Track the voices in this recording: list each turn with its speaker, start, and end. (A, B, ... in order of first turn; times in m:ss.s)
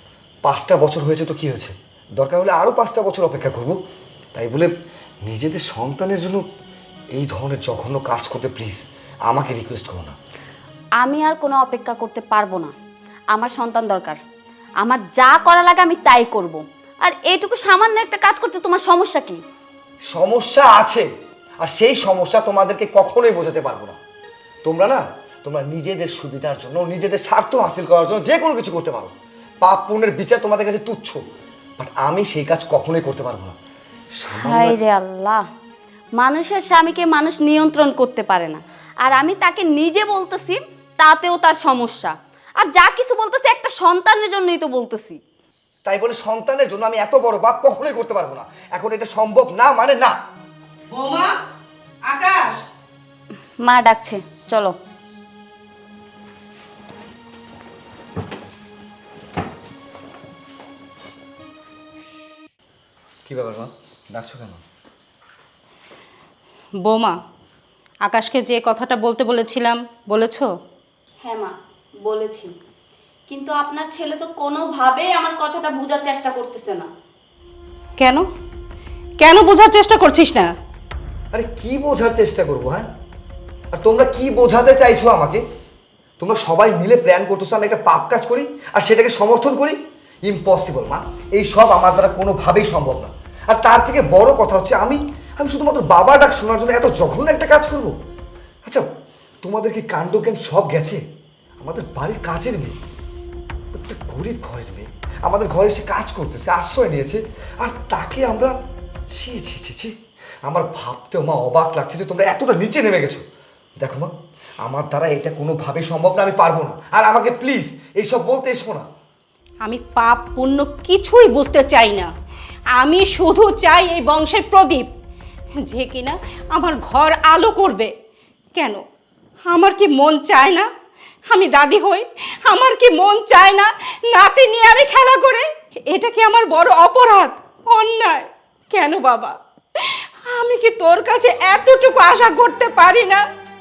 0:00.4-0:03.8 A
0:04.3-0:04.7 A
0:05.2-0:06.4 A
0:07.1-0:10.2 A
0:11.0-0:12.7 B
0:13.3-0:14.2 B
0:14.8-0:19.4 B
0:20.1-0:21.1 A
0:21.6-0:24.0 A
0:24.6-0:31.2 A
0:31.8-0:33.6 A
0:34.2-0:34.8 A
0:34.3-0:35.4 B
0:36.2-0:45.2 B
0:45.8-0:50.2 A
0:50.9-0:51.4 C
0:52.1-0:52.6 C
0:53.6-0:54.8 B
1:03.2-1:04.6 A
1:06.8-1:07.2 C
1:08.0-1:10.5 C
1:11.2-1:12.5 B
1:13.3-1:16.9 B
1:18.0-1:18.2 C
1:19.2-1:20.5 C
1:21.3-1:22.9 A
1:23.7-1:25.4 A
1:26.2-1:37.9 A
1:39.4-1:41.0 A
1:41.6-1:42.8 A
1:43.7-1:48.5 A
1:49.1-1:49.9 A
1:50.5-1:53.2 A
1:53.8-1:58.9 A
1:59.6-2:02.1 C
2:02.8-2:04.9 C
2:05.7-2:07.9 C
2:08.6-2:08.8 C
2:09.5-2:10.7 C
2:11.3-2:23.2 C